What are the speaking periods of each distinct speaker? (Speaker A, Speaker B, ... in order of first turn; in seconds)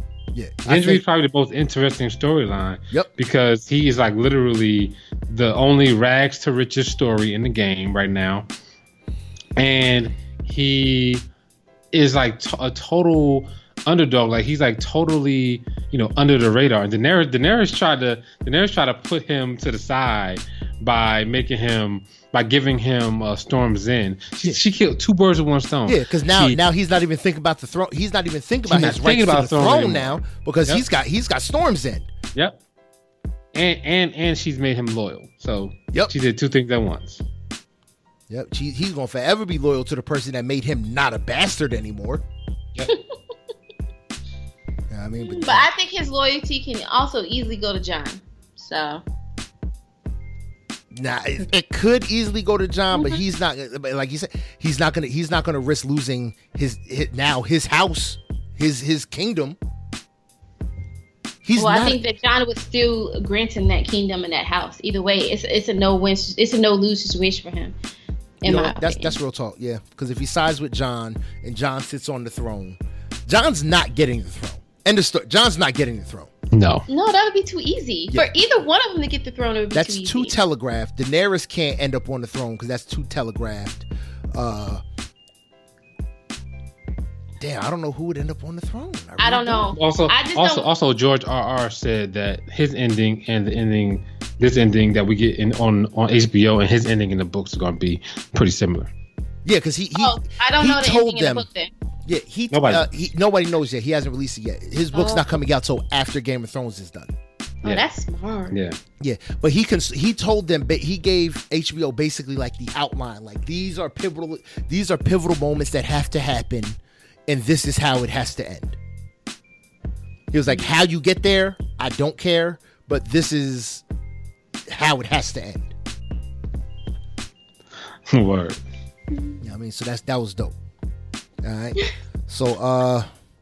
Speaker A: 0.3-1.0, 25.9-32.1, 38.3-42.2, 44.9-45.7, 50.9-59.6, 61.4-62.0, 68.4-76.3, 79.7-84.8, 87.4-89.7, 99.5-101.5, 102.1-107.1, 109.0-118.8, 120.3-123.8, 124.7-125.7, 129.4-130.6, 131.4-133.1
Speaker B: 0.7-8.5, 9.6-11.2, 11.9-26.6, 28.7-30.8, 33.5-37.2, 76.5-76.9, 89.7-98.9, 102.5-102.8, 108.5-108.8, 128.1-128.6
Speaker C: 45.2-49.0, 52.9-53.2, 61.6-67.7, 68.4-69.2, 76.9-80.3, 89.2-90.7, 100.0-101.7, 104.9-105.4, 107.6-108.6, 120.5-120.7